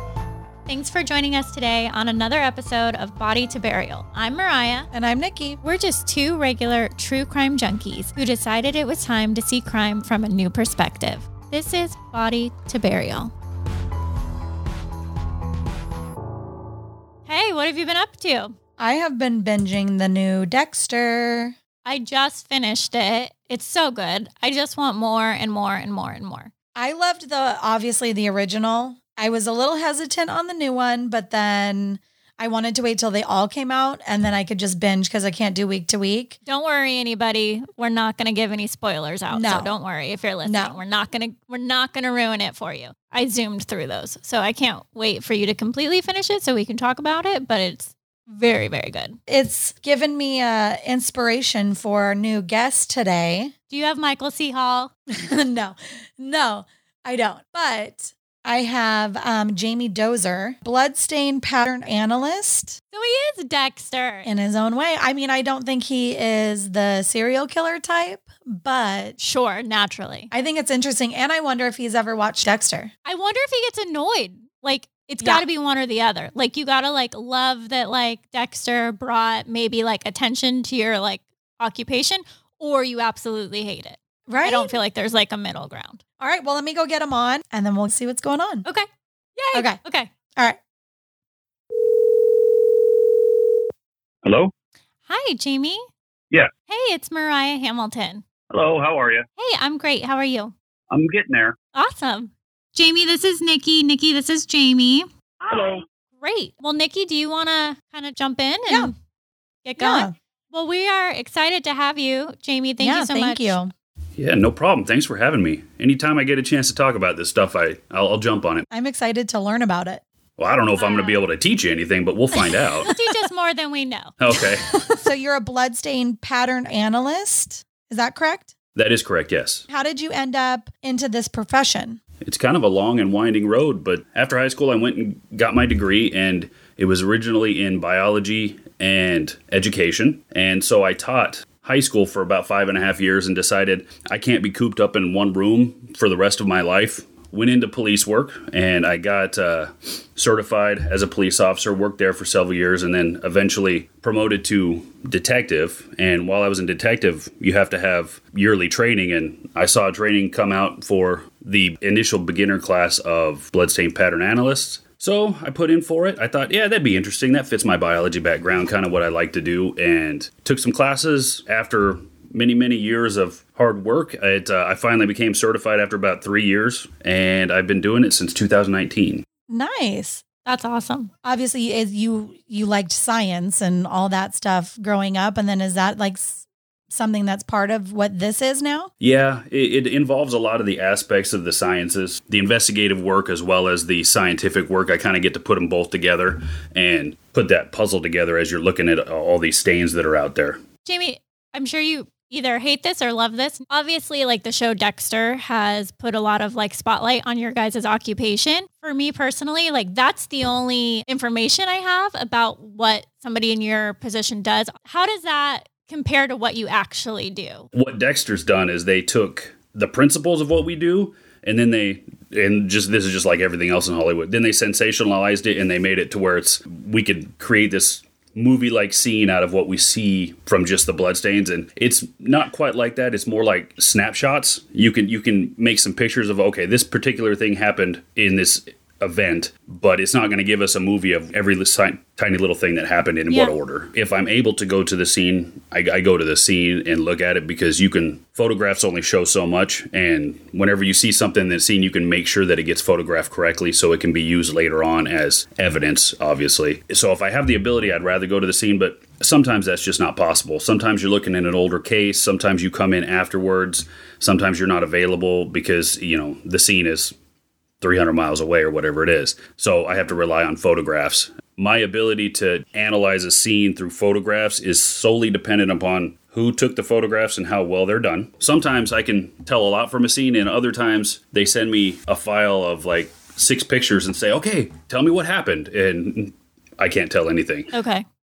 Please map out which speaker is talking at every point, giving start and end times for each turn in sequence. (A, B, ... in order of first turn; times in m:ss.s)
0:00.7-0:04.9 A
0:04.9-0:05.6 B
0:05.6-0:13.3 A
0:17.3-0:18.6 A
0:18.8-0:21.6 B
0:21.8-0:26.5 A
0:26.8-0:36.4 B
0:36.5-0:49.2 A
0:39.3-0:39.7 B
0:40.4-0:40.8 B
0:49.3-0:53.5 B
0:53.7-0:54.9 A
0:55.1-1:02.8 B
1:02.9-1:04.3 A
1:04.2-1:09.2 B
1:09.2-1:10.3 A
1:10.3-1:12.9 B
1:13.1-1:26.0 A
1:24.3-1:24.7 B
1:26.2-1:28.7 B
1:28.7-1:30.1 A
1:29.5-1:29.8 B
1:34.2-1:34.5 C
1:35.1-1:35.9 A
1:36.7-1:38.2 A
1:38.5-1:39.2 C
1:39.4-1:40.5 A
1:40.9-1:41.6 C
1:41.7-1:45.1 A
1:45.4-1:45.8 C
1:46.2-1:48.9 A
1:49.6-1:53.6 A
1:49.8-1:50.1 B
1:52.8-1:53.7 B
1:54.2-1:58.7 C
1:58.7-2:00.0 B
2:00.4-2:02.9 C
2:00.8-2:01.2 A
2:02.9-2:04.2 A
2:04.2-2:04.7 C
2:04.9-2:08.5 B
2:08.8-2:09.6 C
2:09.7-2:12.0 B
2:12.2-2:59.2 C
2:59.5-3:00.2 B
3:00.4-3:01.1 A
3:01.2-3:08.9 B
3:09.0-3:20.6 C
3:20.8-3:37.7 A
3:37.7-4:27.2 C
4:27.8-4:47.7 C
4:47.7-4:48.0 A